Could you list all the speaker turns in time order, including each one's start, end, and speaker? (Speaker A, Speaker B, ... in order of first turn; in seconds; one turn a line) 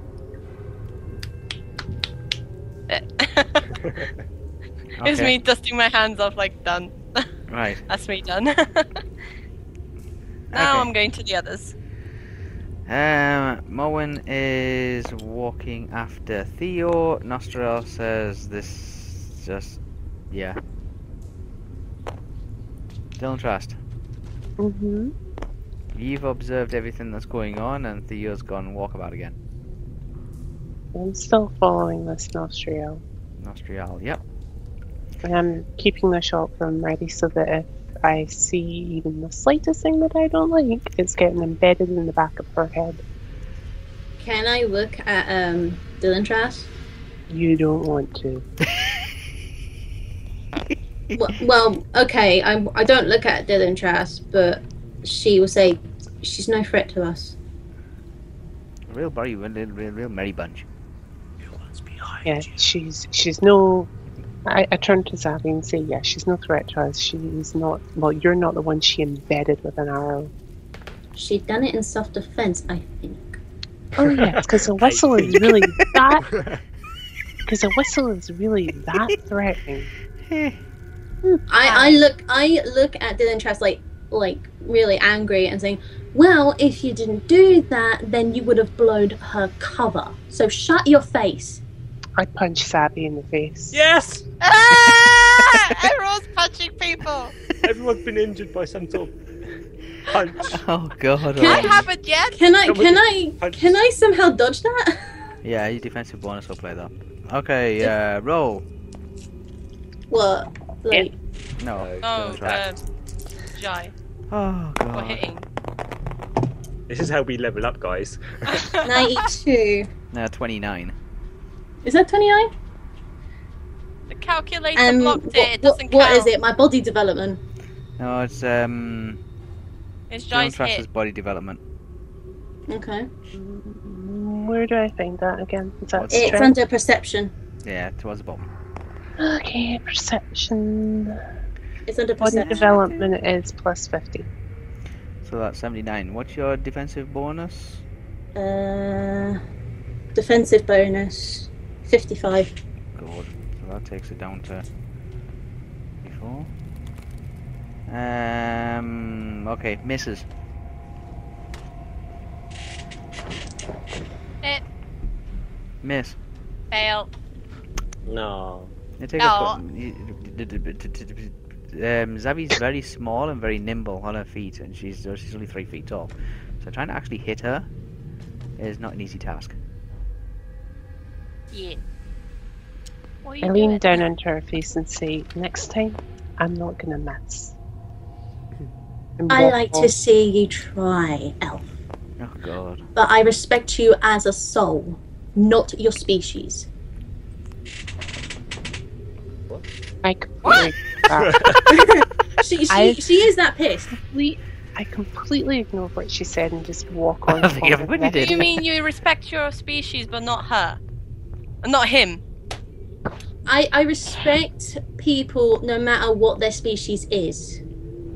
Speaker A: 2.9-3.7
Speaker B: 5.0-5.3
Speaker A: 5.0-7.3
Speaker B: 7.5-7.8
Speaker A: 7.8-9.0
Speaker B: 10.5-10.9
Speaker A: 10.5-11.7
Speaker B: 12.9-19.8
Speaker B: 20.3-20.6
Speaker B: 23.2-23.8
Speaker C: 24.6-25.1
Speaker B: 25.9-29.4
Speaker C: 30.9-33.0
Speaker B: 33.4-34.2
Speaker C: 35.2-43.0
Speaker D: 44.2-46.7
Speaker C: 47.3-48.4
Speaker D: 51.1-57.4
Speaker B: 58.9-60.6
Speaker E: 61.5-62.3
Speaker C: 62.2-63.9
Speaker C: 64.5-70.3
Speaker D: 71.2-73.4
Speaker C: 74.0-76.3
Speaker E: 74.0-75.5
Speaker B: 75.3-75.6
Speaker E: 76.3-76.6
Speaker C: 77.5-79.9
Speaker B: 80.3-80.6
Speaker D: 81.5-91.6
Speaker A: 81.6-82.0
Speaker C: 92.2-93.8
Speaker E: 93.7-94.3
Speaker A: 94.4-97.3
Speaker B: 94.7-95.7
Speaker E: 97.6-99.1
Speaker E: 100.0-100.6
Speaker B: 100.5-101.8
Speaker D: 101.4-105.1
Speaker A: 101.4-102.4
Speaker E: 102.6-103.8
Speaker B: 105.4-108.6
Speaker D: 110.1-111.1
Speaker B: 111.6-112.6
Speaker E: 111.7-112.6
Speaker A: 112.0-112.8
Speaker A: 113.5-113.9
Speaker B: 114.3-115.2
Speaker A: 114.9-115.5
Speaker E: 116.9-118.6
Speaker A: 118.5-119.3
Speaker D: 118.8-119.9
Speaker B: 120.1-120.9
Speaker D: 121.8-122.5
Speaker A: 124.1-126.3
Speaker D: 124.8-127.4
Speaker B: 128.0-129.2
Speaker A: 130.1-130.8
Speaker B: 130.3-131.6
Speaker D: 132.7-133.1
Speaker C: 133.3-136.6
Speaker B: 135.9-136.5
Speaker D: 136.1-137.3
Speaker B: 137.6-138.5
Speaker C: 139.2-141.2
Speaker D: 141.9-142.7
Speaker C: 142.2-144.3
Speaker B: 142.3-143.1
Speaker B: 145.2-147.8
Speaker D: 148.3-149.4
Speaker D: 150.1-152.5
Speaker B: 152.9-154.6
Speaker B: 156.0-156.5
Speaker B: 157.9-160.2
Speaker B: 165.8-166.2
Speaker A: 166.7-167.1
Speaker E: 168.1-168.7
Speaker B: 169.0-177.7
Speaker A: 169.2-169.6
Speaker B: 178.6-179.5
Speaker A: 181.5-181.8
Speaker A: 183.2-184.0
Speaker C: 183.4-187.5
Speaker C: 189.2-189.9
Speaker D: 189.3-191.7
Speaker B: 192.2-192.8
Speaker D: 192.9-196.7
Speaker C: 200.0-201.5
Speaker B: 200.4-200.7
Speaker E: 201.1-201.8
Speaker D: 201.7-203.9
Speaker C: 202.7-203.0
Speaker C: 203.9-208.6
Speaker B: 207.3-208.6
Speaker A: 208.2-210.8
Speaker A: 211.6-212.2
Speaker D: 213.5-217.6